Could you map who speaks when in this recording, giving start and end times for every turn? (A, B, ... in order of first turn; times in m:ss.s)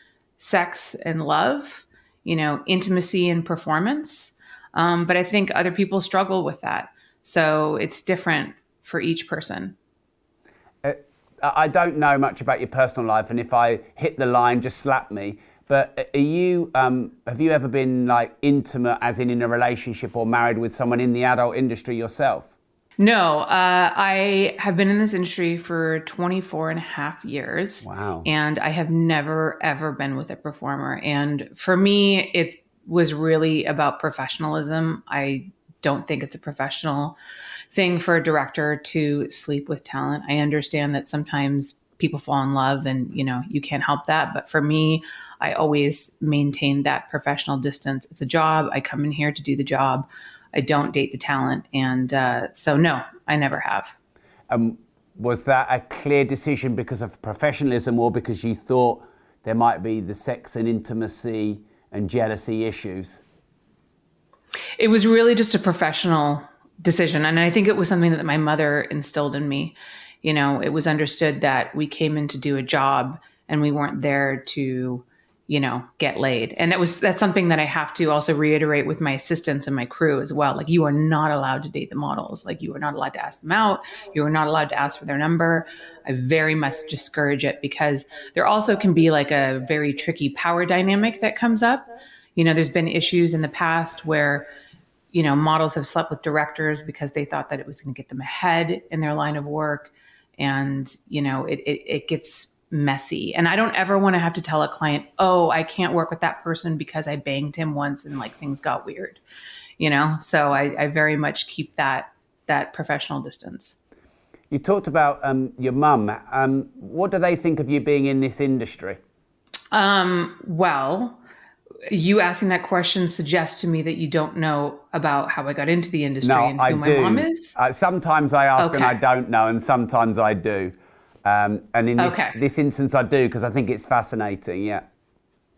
0:00.4-0:09.8 A
0:10.8-0:22.5 B
0:23.0-0:37.2 A
0:27.8-0:28.3 B
0:37.7-0:53.9 A
0:54.5-1:03.2 B
1:04.8-1:34.4 A
1:35.1-1:49.2 A
1:49.8-1:53.8 A
1:54.5-1:59.0 B
1:59.7-2:01.2 A
2:01.9-2:07.6 A
2:06.2-2:14.9 B
2:08.6-2:09.0 A
2:12.0-2:12.4 A